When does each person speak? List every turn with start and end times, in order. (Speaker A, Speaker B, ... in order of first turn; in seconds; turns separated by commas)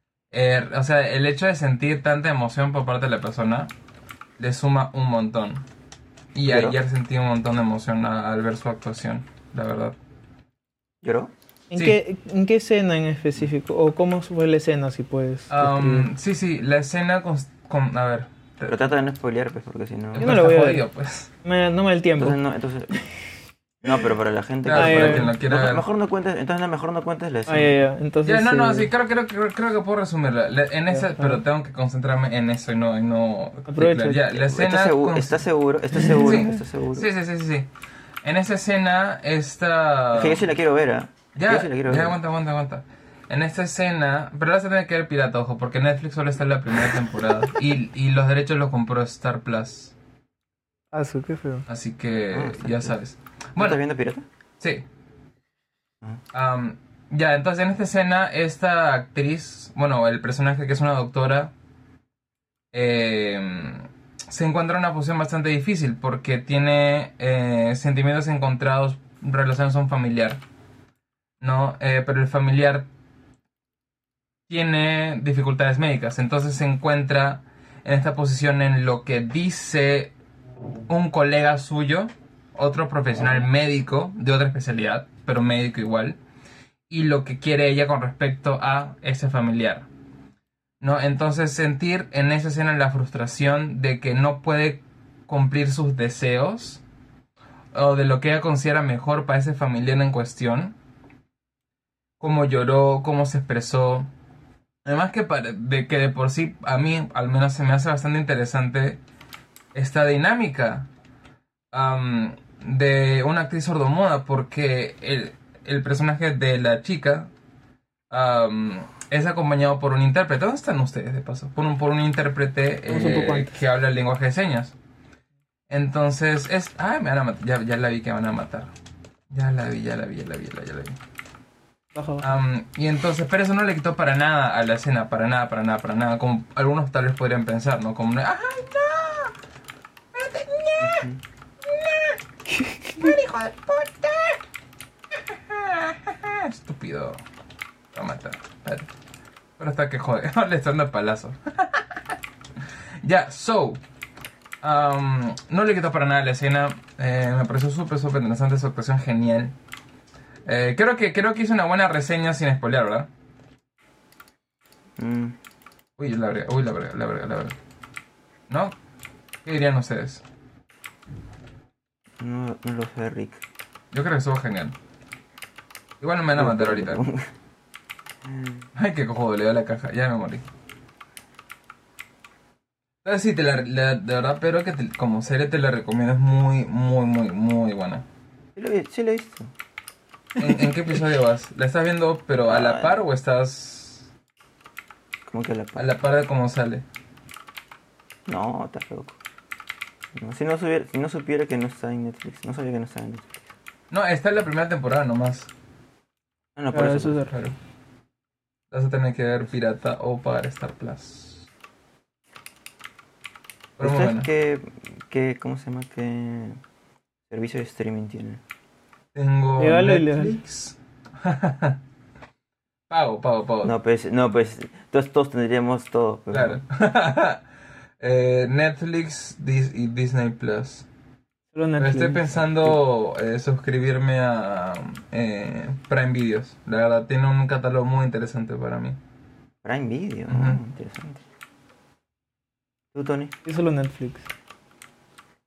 Speaker A: 0.3-3.7, Speaker A: 4.4-5.7, Speaker A: 6.3-10.0, Speaker B: 6.5-6.8, Speaker B: 11.0-11.3, Speaker C: 11.7-16.1, Speaker A: 15.5-18.9, Speaker B: 18.7-20.3, Speaker A: 20.1-21.3, Speaker C: 20.2-20.9, Speaker C: 21.4-22.4, Speaker B: 22.2-23.0, Speaker B: 23.8-27.8, Speaker A: 24.7-25.8, Speaker C: 24.7-25.3, Speaker C: 27.5-28.9, Speaker A: 28.2-35.4, Speaker C: 30.9-31.4, Speaker C: 33.7-34.2, Speaker B: 34.3-37.1, Speaker A: 36.0-37.7, Speaker A: 38.2-40.5, Speaker B: 40.1-42.2, Speaker A: 41.4-50.0, Speaker C: 50.9-51.7, Speaker A: 51.7-53.8, Speaker B: 52.3-53.0, Speaker B: 53.6-54.3, Speaker A: 56.3-61.5, Speaker A: 62.7-70.4, Speaker A: 71.4-72.9, Speaker A: 74.5-80.1, Speaker A: 80.9-86.2, Speaker A: 86.9-89.9, Speaker A: 90.8-96.8, Speaker A: 97.7-100.8, Speaker A: 102.2-104.1, Speaker A: 104.8-109.0, Speaker A: 109.7-110.9, Speaker A: 111.7-117.3, Speaker A: 118.1-124.8, Speaker C: 122.9-123.7, Speaker A: 125.7-128.7, Speaker A: 129.3-131.0, Speaker C: 131.9-132.3, Speaker A: 132.2-139.3, Speaker A: 140.1-141.1, Speaker B: 140.8-141.2, Speaker A: 141.7-142.2, Speaker C: 142.5-143.2, Speaker A: 143.0-144.4, Speaker A: 145.2-147.2, Speaker A: 147.9-148.9, Speaker A: 149.6-152.0, Speaker A: 153.0-153.8, Speaker A: 154.6-159.6, Speaker A: 160.5-163.1, Speaker B: 165.0-165.4, Speaker A: 166.0-167.6, Speaker A: 168.5-168.8, Speaker A: 169.4-170.2, Speaker B: 172.2-173.4, Speaker A: 173.9-174.8, Speaker A: 176.0-177.0, Speaker B: 176.3-177.3, Speaker B: 178.2-178.7, Speaker A: 178.8-180.5, Speaker A: 183.0-188.1, Speaker B: 188.6-189.5, Speaker A: 190.4-194.1, Speaker B: 192.5-193.0, Speaker B: 195.3-196.0, Speaker A: 195.8-196.8, Speaker B: 198.3-199.2, Speaker B: 200.1-203.5, Speaker A: 203.9-205.5, Speaker B: 206.6-207.3, Speaker C: 206.7-207.3, Speaker A: 207.3-207.6, Speaker A: 208.7-211.5, Speaker A: 213.8-214.3, Speaker B: 213.8-216.6, Speaker B: 217.3-218.4, Speaker A: 219.1-221.8, Speaker C: 219.6-220.4, Speaker A: 222.9-223.7, Speaker B: 223.6-226.6, Speaker A: 226.3-227.4, Speaker A: 228.0-230.9, Speaker C: 231.5-232.8, Speaker A: 231.8-239.0, Speaker B: 239.6-241.2, Speaker A: 240.3-240.6, Speaker B: 242.9-243.3, Speaker C: 243.4-244.3